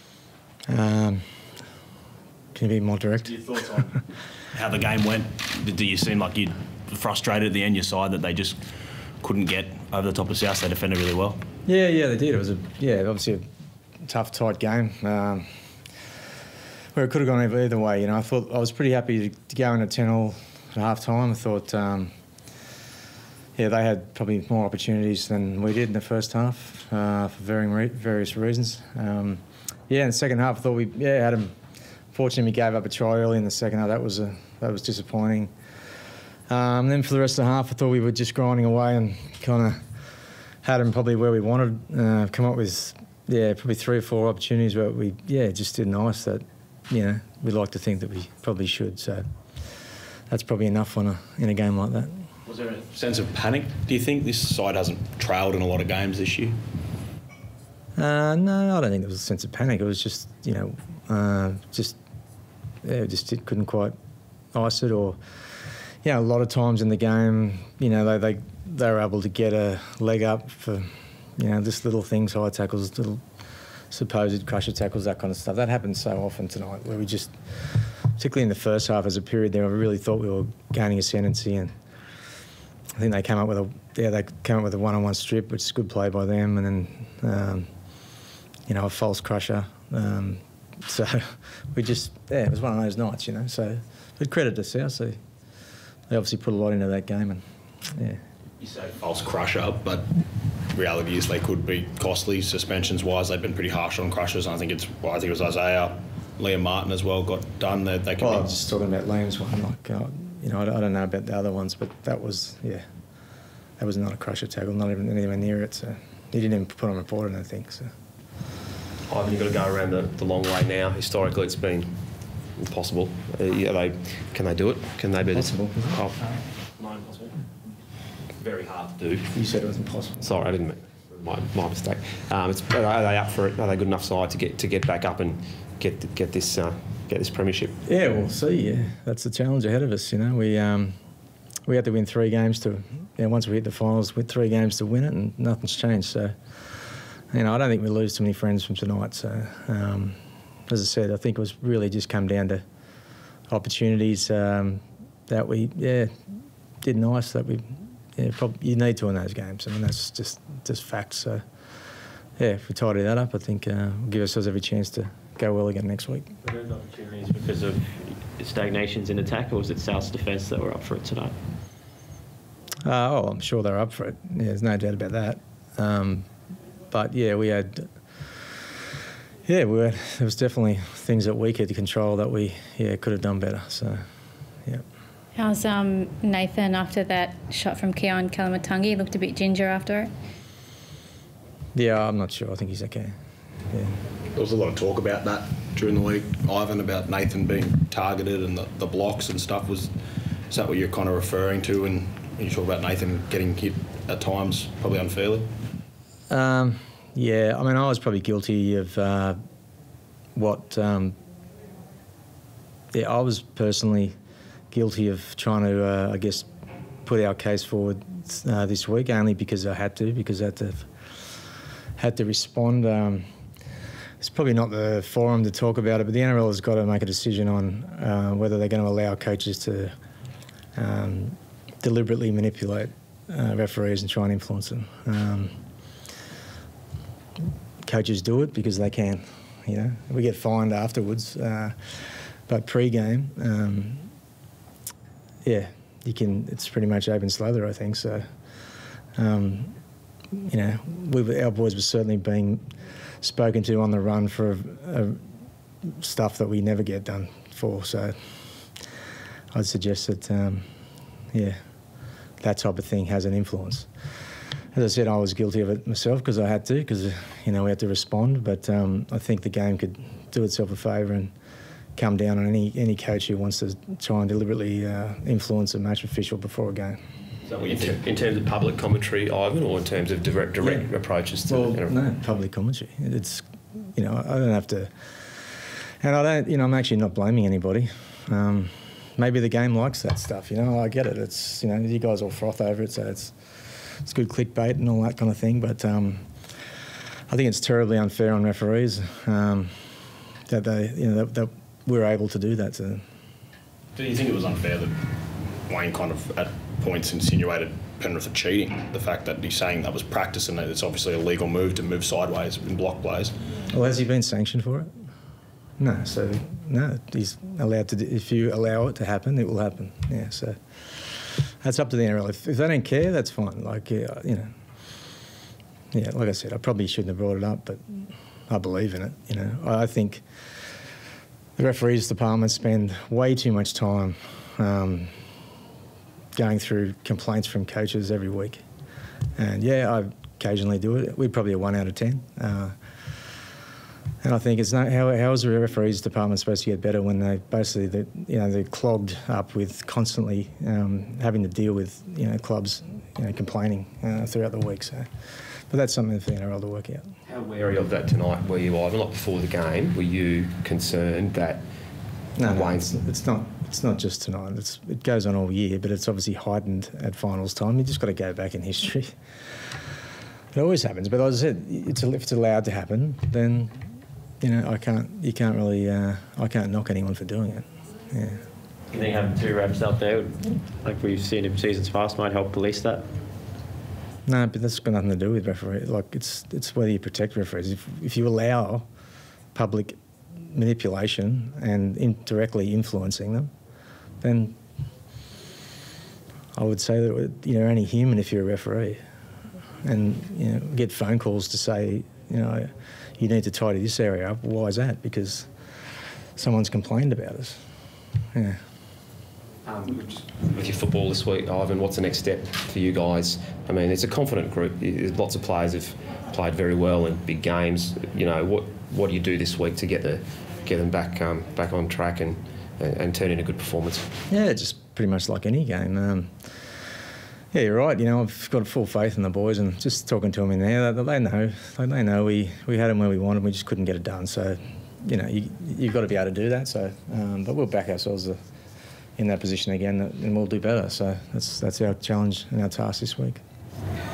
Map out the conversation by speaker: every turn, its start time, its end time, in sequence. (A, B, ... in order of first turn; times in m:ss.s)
0:00.7-0:01.2 A
0:02.5-0:03.4 A
0:04.6-0:08.6 B
0:09.2-0:11.4 B
0:11.7-0:13.4 A
0:14.0-0:15.5 A
0:16.9-0:22.1 A
0:23.6-0:31.5 A
0:32.1-0:35.5 A
0:36.5-0:39.8 A
0:40.6-0:49.2 A
0:50.3-0:52.2 A
0:52.5-0:56.6 B
0:58.0-1:02.0 A
1:02.8-1:04.0 A
1:04.5-1:05.2 A
1:06.0-1:13.2 A
1:13.9-1:17.3 A
1:18.2-1:21.7 A
1:23.0-1:27.7 A
1:28.7-1:35.2 A
1:36.1-1:37.4 A
1:38.0-1:38.2 A
1:38.6-1:40.1 B
1:40.7-1:48.6 B
1:48.2-1:52.8 A
1:53.8-1:57.9 A
1:59.1-2:02.0 C
2:02.6-2:07.4 C
2:05.3-2:06.0 A
2:08.4-2:09.3 C
2:09.3-2:10.2 A
2:10.2-2:17.8 C
2:17.9-2:21.0 A
2:21.7-2:26.3 A
2:27.3-2:32.6 A
2:33.5-2:36.1 A
2:36.8-2:41.4 A
2:42.4-2:46.3 A
2:46.4-2:51.4 D
2:52.8-2:56.3 A
2:56.9-2:57.9 A
2:59.5-3:04.0 A
3:05.4-3:10.1 E
3:11.8-3:13.1 A
3:13.7-3:14.0 A
3:14.3-3:19.9 B
3:20.5-3:25.5 B
3:26.3-3:29.4 A
3:30.4-3:31.2 A
3:32.9-3:34.1 A
3:34.7-3:36.5 A
3:37.0-3:40.9 A
3:42.0-3:43.2 A
3:44.2-3:49.9 A
3:50.8-3:55.5 A
3:57.8-4:01.9 A
4:02.5-4:04.1 A
4:05.4-4:08.3 A
4:09.2-4:09.8 A
4:10.4-4:12.6 A
4:13.2-4:15.2 A
4:15.8-4:18.2 A
4:19.5-4:20.7 A
4:21.3-4:21.6 A
4:22.4-4:23.9 A
4:24.7-4:31.3 A
4:32.0-4:37.0 A
4:37.6-4:37.9 D
4:37.6-4:41.9 C
4:40.6-4:40.9 A
4:41.5-4:44.9 A
4:46.0-4:53.3 A
4:54.0-4:56.3 A
4:57.3-4:59.7 A
5:00.5-5:03.0 A
5:04.0-5:05.0 B
5:05.7-5:13.4 B
5:13.7-5:14.9 A
5:15.8-5:24.5 A
5:25.9-5:30.2 A
5:31.6-5:35.1 A
5:36.4-5:38.6 A
5:39.4-5:42.7 A
5:44.2-5:55.1 A
5:55.7-5:57.1 A
5:57.3-6:01.6 C
6:02.4-6:09.1 A
6:02.4-6:02.9 C
6:10.5-6:13.7 A
6:14.4-6:18.4 A
6:18.9-6:23.0 D
6:24.3-6:28.9 A
6:29.5-6:33.5 A
6:34.2-6:34.6 A
6:36.6-6:39.0 A
6:39.8-6:45.5 A
6:46.4-6:47.6 A
6:48.3-6:48.6 A
6:49.6-7:04.1 C
7:04.3-7:06.3 A
7:07.5-7:18.4 A
7:19.2-7:23.4 A